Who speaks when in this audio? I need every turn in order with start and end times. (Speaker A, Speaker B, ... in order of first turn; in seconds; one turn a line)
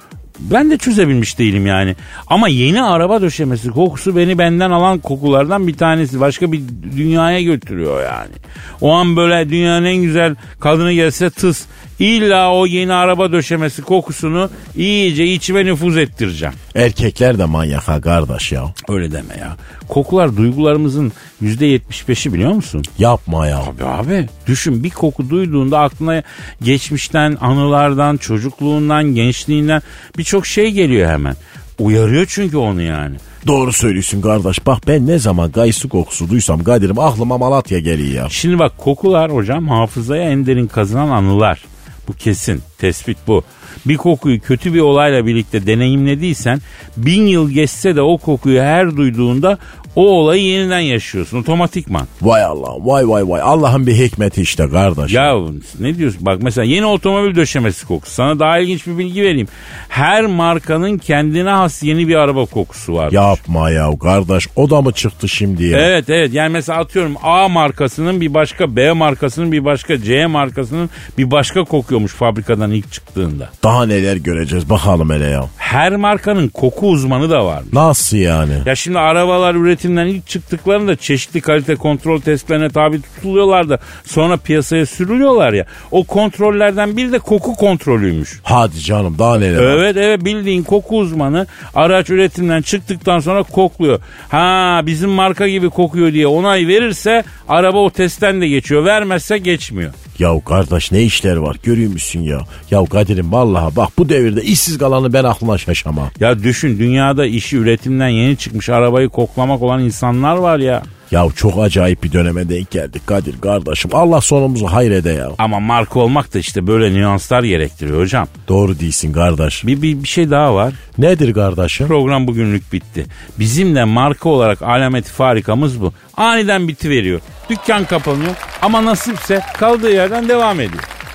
Speaker A: 0.4-16.6
Speaker B: 16.7-18.7
Speaker A: 18.9-22.9
Speaker B: 23.0-23.7
Speaker A: 23.6-33.2
Speaker B: 33.4-38.3
Speaker A: 38.3-52.1
Speaker B: 52.2-55.4
Speaker A: 55.1-63.4
Speaker B: 63.1-65.9
Speaker A: 65.7-73.5
Speaker B: 73.6-75.5
Speaker A: 75.6-77.8
Speaker B: 77.7-78.7
Speaker A: 78.7-88.4
Speaker B: 88.4-89.8
Speaker A: 89.6-100.0
Speaker B: 100.2-106.1
Speaker A: 106.2-110.9
Speaker B: 111.1-115.4
Speaker A: 115.4-118.3
Speaker B: 118.5-119.7
Speaker A: 119.6-120.8
Speaker B: 121.0-121.9
Speaker A: 121.8-130.9